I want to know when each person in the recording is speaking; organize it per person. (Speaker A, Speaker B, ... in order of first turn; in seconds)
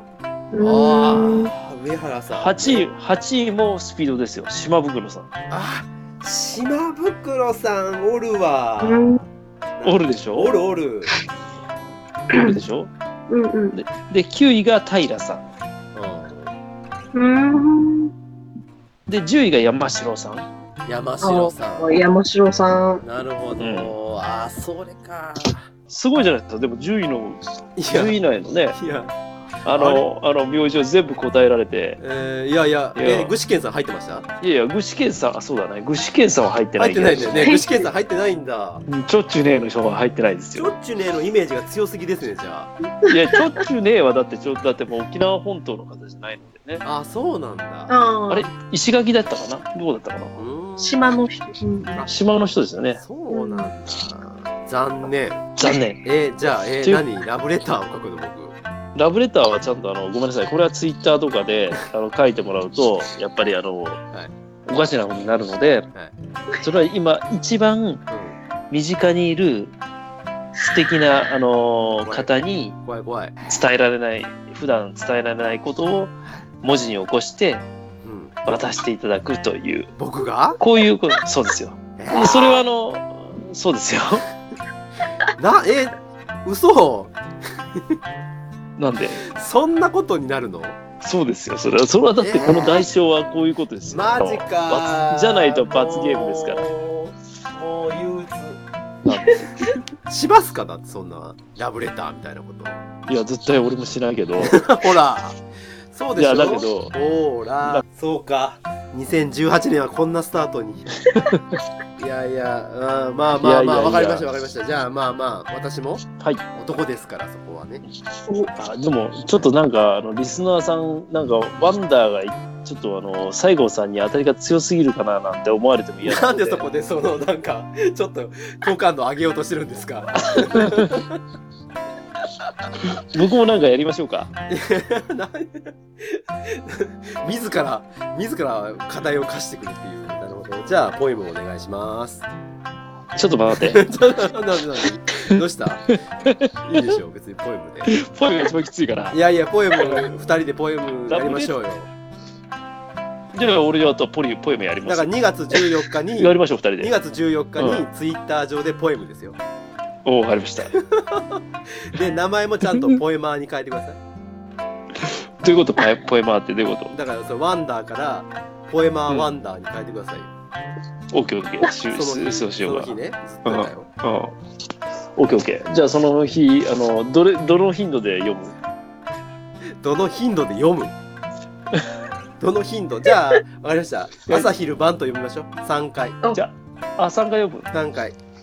Speaker A: 0.5-1.5, 8.8-9.2, 13.3-13.8, 17.1-18.1, 21.2-23.0, 37.4-37.8, 47.9-48.5, 50.8-52.0, 53.3-53.7, 99.3-99.7
Speaker B: 0.6-2.9, 5.5-11.1, 15.9-16.5, 20.9-22.0, 23.0-25.6, 27.8-28.2, 28.7-29.1, 29.7-30.1, 32.0-34.3, 36.8-38.8, 40.5-42.7, 46.8-47.9, 50.4-51.0, 53.0-55.5, 56.0-58.6, 68.1-68.4, 72.0-73.3, 78.0-78.3, 80.0-80.6, 82.0-82.3, 85.4-87.2, 89.3-90.8, 92.2-92.8, 93.9-98.6, 100.0-102.8, 104.4-105.4, 105.9-110.9, 112.0-117.8, 126.0-131.2, 132.4-132.7, 134.5-142.3, 143.6-145.9, 146.7-147.9, 149.1-151.9, 154.8-159.4, 160.7-164.0, 166.9-170.3, 171.9-173.9, 179.8-181.0, 182.4-186.2, 187.7-188.2
Speaker C: 2.3-5.3, 9.8-10.6, 12.3-12.9, 13.7-15.4, 19.1-20.5, 23.6-23.9, 25.9-27.4, 27.9-28.8, 29.6-32.0, 33.0-33.4, 34.4-37.5, 38.9-40.7, 43.1-46.8, 48.3-50.4, 52.1-53.0, 55.6-56.0, 59.0-64.0, 64.7-65.9, 66.6-68.0, 68.7-69.8, 70.6-72.8, 73.5-77.7, 78.5-79.9, 80.6-84.3, 88.8-89.2, 91.0-96.7, 99.0-99.4, 103.1-104.6, 106.2-106.9, 111.0-111.6, 113.4-114.3, 118.5-126.6, 130.3-131.0, 133.1-134.3, 143.2-143.8, 147.9-149.2, 151.1-151.5, 153.3-155.6, 156.2-156.9, 157.6-157.9, 160.1-160.7, 165.0-166.9, 171.1-174.4, 175.2-178.6, 186.3-187.7